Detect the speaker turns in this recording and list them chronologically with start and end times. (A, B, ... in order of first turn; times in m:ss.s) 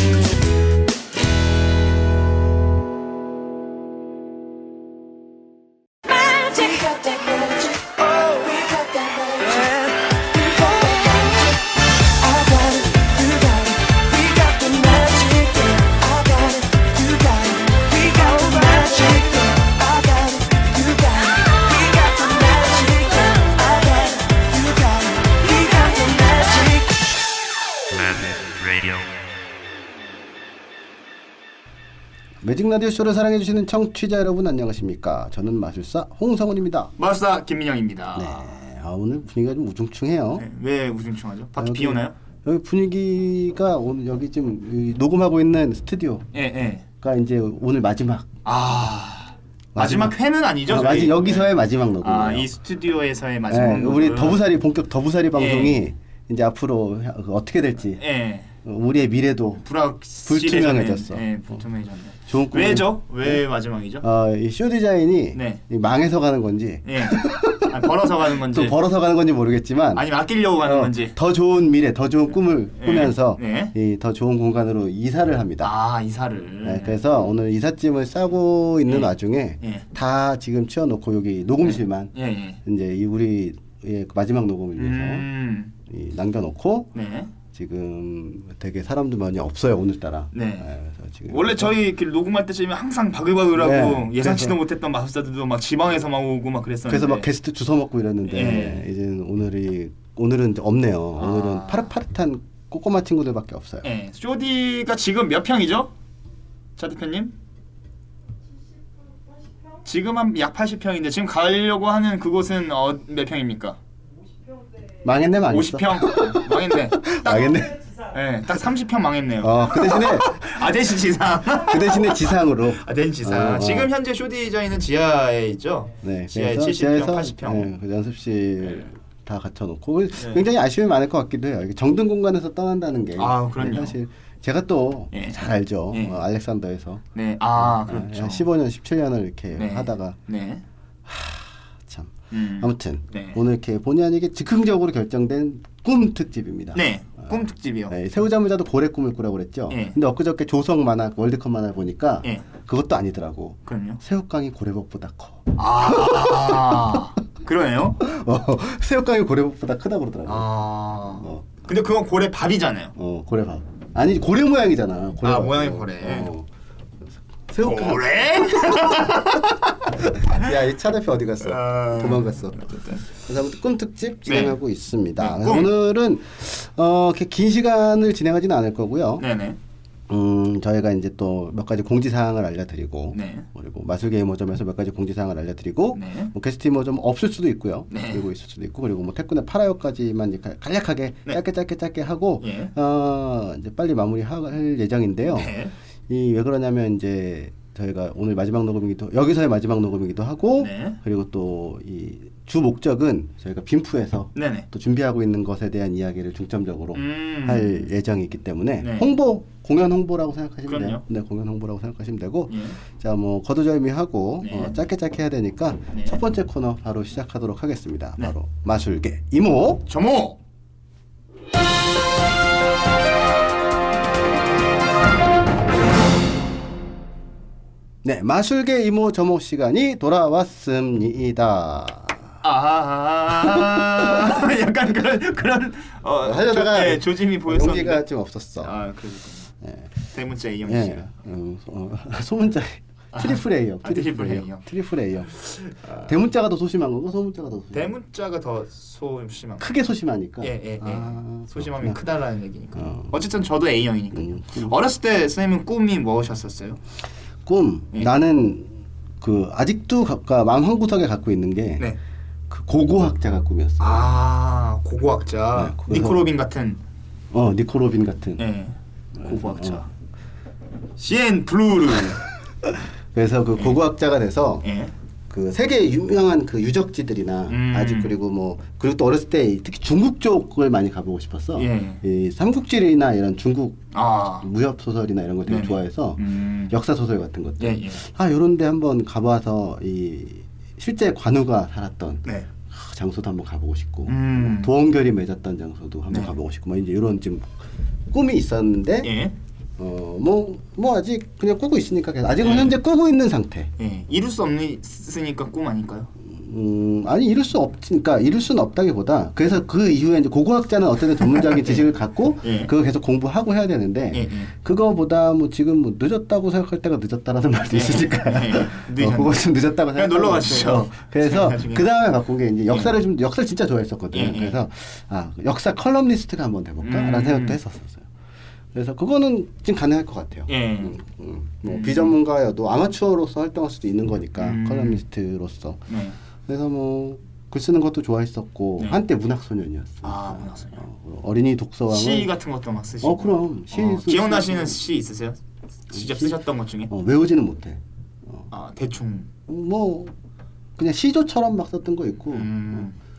0:06.0-0:26.9 A
0:32.4-0:36.9 B
0:37.0-0:38.5 C
0:38.2-0:40.4 B
0:40.4-0:42.2 C
0:41.6-0:46.3 B
0:46.3-0:46.8 C
0:47.0-0:48.3 B
0:48.4-0:54.4 C
0:49.8-0:52.5 B
0:53.5-0:58.0 B
0:55.4-0:55.8 C
0:58.0-0:58.5 C
0:58.6-0:59.7 B
0:59.6-1:04.0 C
1:00.2-1:01.6 B
1:02.3-1:03.4 B
1:04.0-1:15.7 B
1:05.3-1:05.6 C
1:06.8-1:08.8 C
1:10.0-1:11.2 C
1:12.8-1:13.7 C
1:15.6-1:17.0 C
1:16.6-1:22.1 B
1:18.9-1:19.8 C
1:21.6-1:22.6 C
1:22.6-1:25.3 B
1:24.8-1:25.7 C
1:25.9-1:26.9 B
1:27.0-1:27.3 C
1:27.5-1:31.7 B
1:30.3-1:30.7 C
1:31.3-1:37.3 C
1:33.5-1:34.6 B
1:36.8-1:43.8 B
1:38.2-1:38.8 C
1:41.2-1:41.9 C
1:43.8-1:45.9 C
1:46.8-1:47.3 C
1:48.6-1:49.8 A
1:49.8-1:53.8 C
1:54.2-1:55.0 A
1:55.0-1:57.8 B
1:55.5-2:07.7 C
1:57.6-1:58.1 A
1:59.4-2:00.9 B
2:01.6-2:03.9 B
2:06.0-2:17.0 B
2:08.6-2:08.9 C
2:10.2-2:10.4 C
2:13.2-2:14.0 C
2:15.1-2:16.2 C
2:17.2-2:18.5 C
2:17.6-2:20.2 B
2:19.6-2:20.6 C
2:21.1-2:37.0 B
2:22.3-2:23.4 C
2:26.7-2:28.0 C
2:29.7-2:30.0 C
2:33.7-2:34.0 C
2:35.6-2:38.0 C
2:38.0-2:41.5 B
2:40.3-2:42.9 C
2:43.0-2:46.5 B
2:45.2-2:46.3 C
2:47.5-2:49.2 B
2:47.6-2:49.6 C
2:50.1-2:59.2 B
2:50.3-2:50.5 C
2:51.4-2:53.1 C
2:54.3-2:54.6 C
2:55.2-2:55.7 C
2:59.2-2:59.6 C
3:00.1-3:15.6 B
3:03.1-3:03.5 C
3:05.9-3:06.3 C
3:07.9-3:08.2 C
3:12.4-3:12.7 C
3:15.3-3:15.7 C
3:16.1-3:39.9 B
3:20.6-3:21.0 C
3:24.4-3:24.7 C
3:26.9-3:27.8 C
3:28.8-3:29.1 C
3:30.7-3:31.0 C
3:32.5-3:32.8 C
3:34.4-3:34.8 C
3:35.9-3:36.2 C
3:39.9-3:40.4 C
3:48.0-3:52.4 B
3:52.4-3:58.0 C
3:53.4-3:54.3 B
3:56.2-3:58.8 B
3:58.6-3:59.5 C
3:59.6-4:00.0 B
4:00.1-4:01.1 C
4:00.6-4:08.0 B
4:03.1-4:04.6 C
4:05.4-4:06.1 C
4:07.7-4:09.8 C
4:09.6-4:12.0 B
4:10.4-4:16.8 C
4:12.8-4:13.2 B
4:14.1-4:14.8 B
4:17.4-4:21.9 B
4:22.5-4:24.1 B
4:23.8-4:26.8 C
4:25.6-4:26.3 B
4:27.3-4:28.4 B
4:28.4-4:29.9 C
4:29.2-4:29.8 B
4:31.0-4:32.2 C
4:32.6-4:34.6 B
4:33.6-4:33.8 C
4:34.6-4:34.9 C
4:35.3-4:43.8 B
4:37.5-4:38.2 C
4:41.6-4:42.0 C
4:43.9-4:44.5 C
4:44.4-4:57.6 B
4:45.5-4:46.8 C
4:47.6-4:48.0 C
4:54.1-4:54.7 C
4:56.1-4:56.4 C
4:58.1-4:59.1 B
4:59.0-4:59.3 C
4:59.8-5:03.7 B
5:02.4-5:02.8 C
5:03.8-5:06.1 C
5:06.2-5:28.1 B
5:11.3-5:11.9 C
5:12.4-5:12.7 C
5:14.1-5:14.5 C
5:17.7-5:19.4 C
5:20.0-5:21.9 C
5:24.1-5:24.6 C
5:26.8-5:27.6 C
5:28.7-5:35.9 B
5:30.5-5:31.0 C
5:31.7-5:32.2 C
5:34.4-5:35.0 C
5:35.9-5:36.2 C
5:36.5-5:42.3 B
5:40.0-5:40.8 C
5:41.9-5:45.4 C
5:43.0-5:44.8 B
5:45.9-5:46.9 C
5:45.9-5:48.5 B
5:48.5-5:49.3 C
5:49.5-5:50.1 B
5:50.8-5:52.9 B
5:52.3-5:52.9 C